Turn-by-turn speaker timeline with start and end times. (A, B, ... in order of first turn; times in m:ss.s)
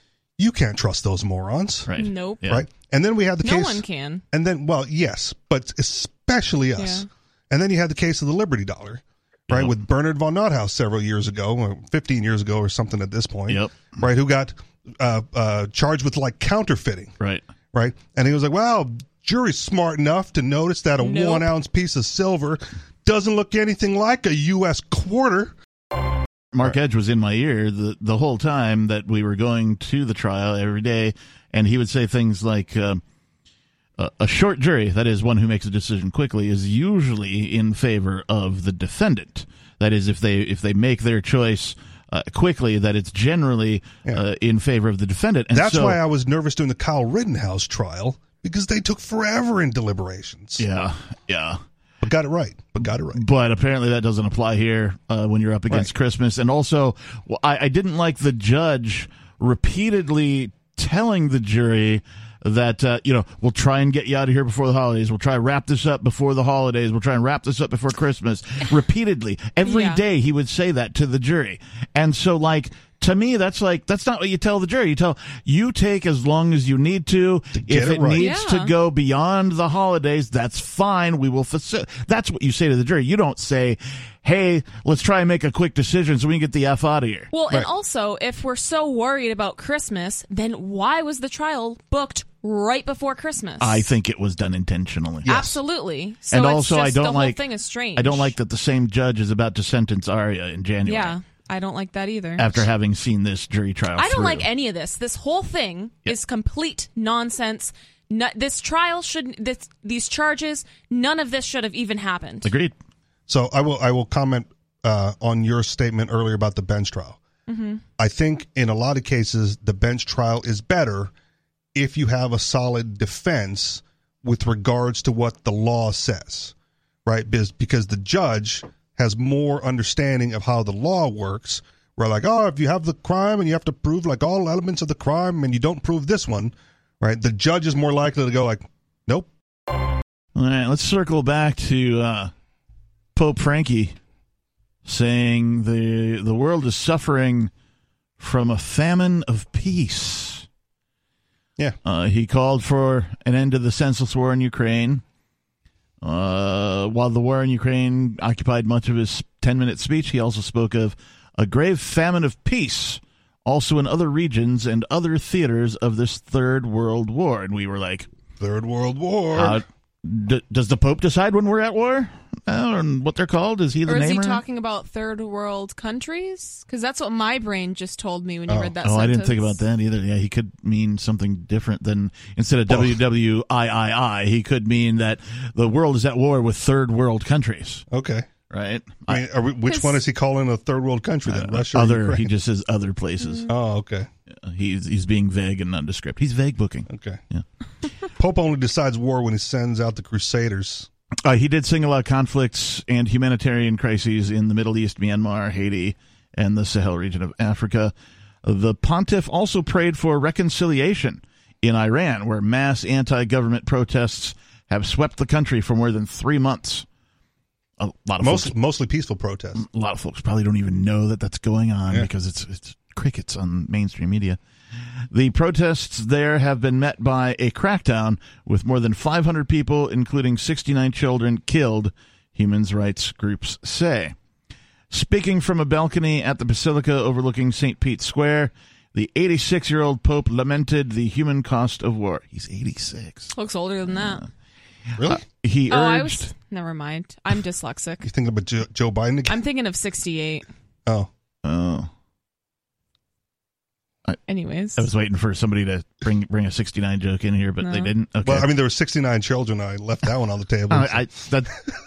0:00.4-0:01.9 A
0:01.9-0:02.6 B
0:02.0-0:02.4 C
0:02.5-0:17.2 A
0:03.4-0:04.2 C
0:06.8-0:07.1 C
0:13.5-0:13.9 B
0:17.7-0:25.6 A
0:21.0-0:21.5 C
0:26.5-0:33.0 B
0:34.0-0:46.0 B
0:45.5-0:50.6 A
0:50.6-0:51.6 B
0:52.0-0:53.2 A
0:53.1-1:27.3 B
1:09.7-1:10.0 C
1:17.6-1:18.3 A
1:18.2-1:18.7 C
1:27.3-1:33.8 C
1:33.6-1:35.6 B
1:35.3-1:38.3 C
1:36.3-1:37.4 B
1:38.0-1:41.2 B
1:40.8-1:42.6 C
1:42.4-1:44.5 B
1:44.0-1:52.5 C
1:52.4-1:52.8 B
1:53.3-1:57.2 A
1:57.5-1:57.8 C
1:58.0-2:01.1 A
2:01.8-2:06.5 A
2:07.1-2:19.3 A
2:20.4-2:22.3 B
2:23.2-2:24.0 B
2:24.8-2:27.5 B
2:28.2-2:30.5 B
2:31.8-2:35.0 B
2:36.0-2:48.1 B
2:48.4-2:49.6 A
2:49.3-2:54.4 B
2:53.9-2:59.6 C
2:58.5-2:58.7 A
2:58.8-3:07.8 B
3:02.7-3:03.0 A
3:07.9-3:08.3 A
3:08.5-3:09.2 B
3:09.1-3:12.3 A
3:09.7-3:10.0 C
3:11.3-3:13.5 B
3:13.2-3:13.5 C
3:13.5-3:14.1 A
3:14.4-3:17.4 B
3:16.9-3:17.2 A
3:18.2-3:20.9 A
3:21.2-3:27.9 B
3:28.4-3:36.9 B
3:37.8-3:38.5 B
3:38.2-3:39.6 A
3:39.6-3:44.4 B
3:45.1-3:54.2 B
3:54.9-4:03.3 B
4:03.3-4:04.3 C
4:04.0-4:04.2 B
4:05.0-4:06.3 B
4:05.7-4:08.1 C
4:08.0-4:09.4 A
4:09.3-4:10.4 C
4:11.4-4:11.9 B
4:14.3-4:14.9 C
4:14.8-4:18.5 B
4:17.6-4:17.9 C
4:18.2-4:21.1 A
4:20.7-4:21.6 B